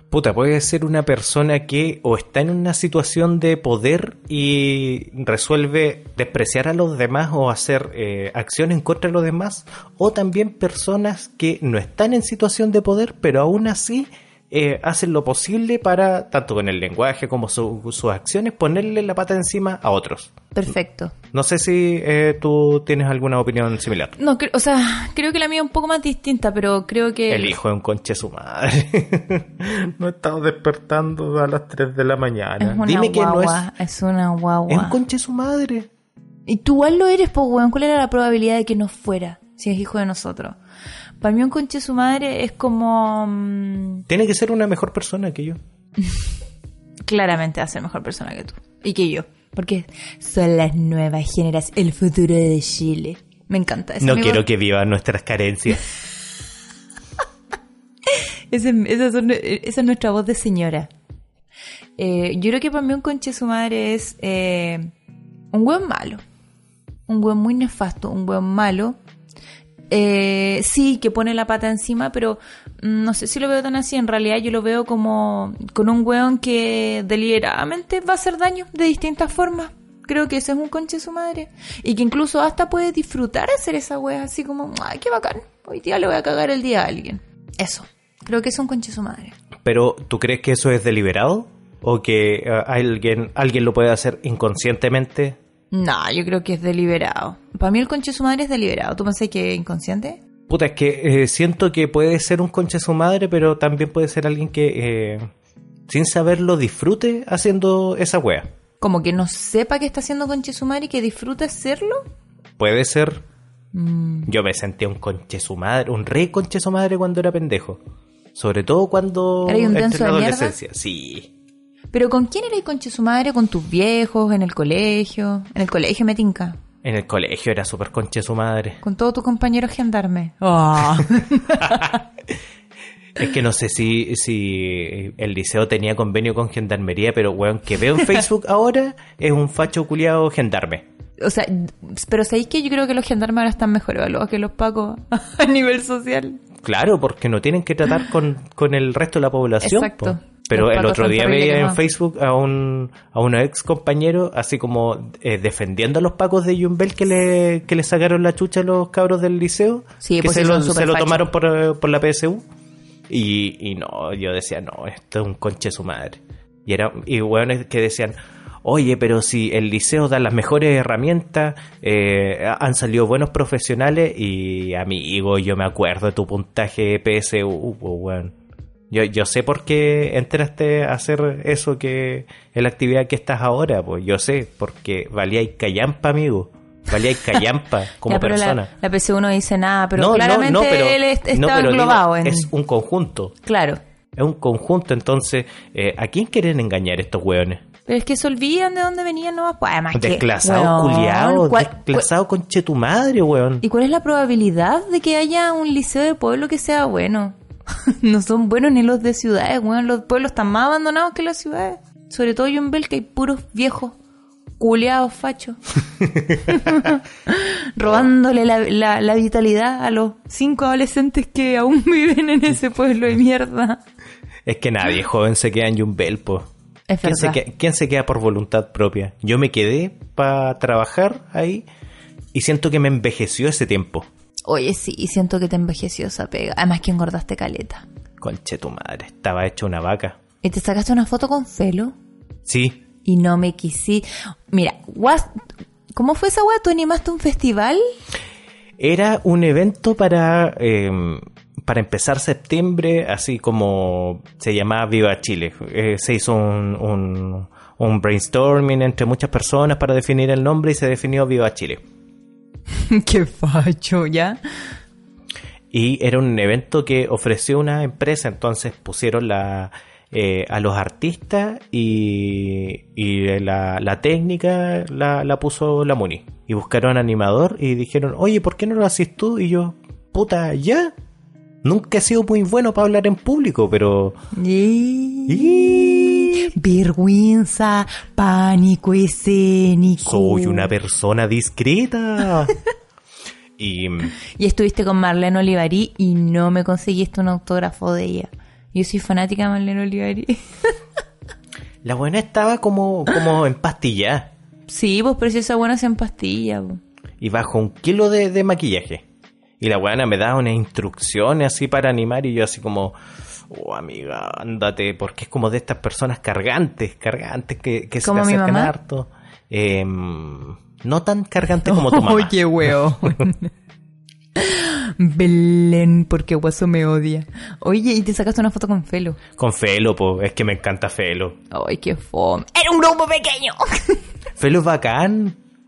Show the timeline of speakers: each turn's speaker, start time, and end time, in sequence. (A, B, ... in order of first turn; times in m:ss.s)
0:00.1-0:20.3 A
0:20.5-0:21.1 B
0:21.3-0:24.2 A
0:24.2-0:27.6 B
0:27.3-0:33.6 A
0:32.6-0:35.0 B
0:34.7-0:35.9 A
0:36.5-0:40.6 B
0:41.2-0:44.0 B
0:44.1-0:45.6 A
0:47.1-0:54.4 B
0:54.0-0:55.8 A
0:58.1-1:00.9 B
1:02.0-1:04.9 B
1:05.5-1:06.2 B
1:07.1-1:09.0 B
1:09.9-1:29.3 B
1:29.6-1:35.4 A
1:35.7-1:40.2 B
1:40.5-1:45.3 A
1:45.9-1:48.5 A
1:48.8-1:52.0 B
1:52.6-1:53.2 A
1:53.7-1:54.3 B
1:54.3-1:57.8 A
1:58.3-2:01.3 A
1:59.4-2:00.6 B
2:01.9-2:06.6 B
2:06.8-2:08.8 A
2:08.8-2:12.0 B
2:11.6-2:11.9 A
2:13.2-2:20.8 A
2:21.2-2:26.4 B
2:26.6-2:42.4 A
2:29.6-2:31.8 B
2:40.0-2:41.2 B
2:43.1-2:58.3 A
2:58.9-3:08.7 A
3:08.0-3:12.5 B
3:10.0-3:13.4 A
3:13.4-3:13.8 B
3:14.2-3:17.6 A
3:17.8-3:22.0 B
3:19.9-3:23.6 A
3:23.6-3:34.0 B
3:34.6-3:35.6 B
3:36.4-3:43.8 B
3:44.4-3:46.5 A
3:46.9-3:47.4 B
3:47.0-3:51.6 A
3:52.3-3:54.1 A
3:54.5-3:57.8 B
3:58.2-4:00.2 A
4:00.4-4:01.9 B
4:02.5-4:02.8 A
4:03.0-4:05.4 B
4:05.9-4:07.8 B
4:08.8-4:21.8 A
4:22.7-4:24.4 B
4:25.7-4:40.9 A
4:41.6-4:44.2 A
4:44.3-4:50.7 B
4:45.3-4:46.4 A
4:50.0-4:52.5 A
4:53.6-4:54.1 A
4:54.4-5:00.7 B
5:01.8-5:04.3 A
5:04.7-5:06.8 B
5:07.2-5:09.0 A
5:09.6-5:13.0 A
5:13.5-5:22.4 A
5:18.0-5:18.7 B
5:21.6-5:23.5 B
5:24.4-5:29.2 B
5:29.4-5:31.4 A
5:31.5-5:34.0 B
5:34.4-5:35.4 A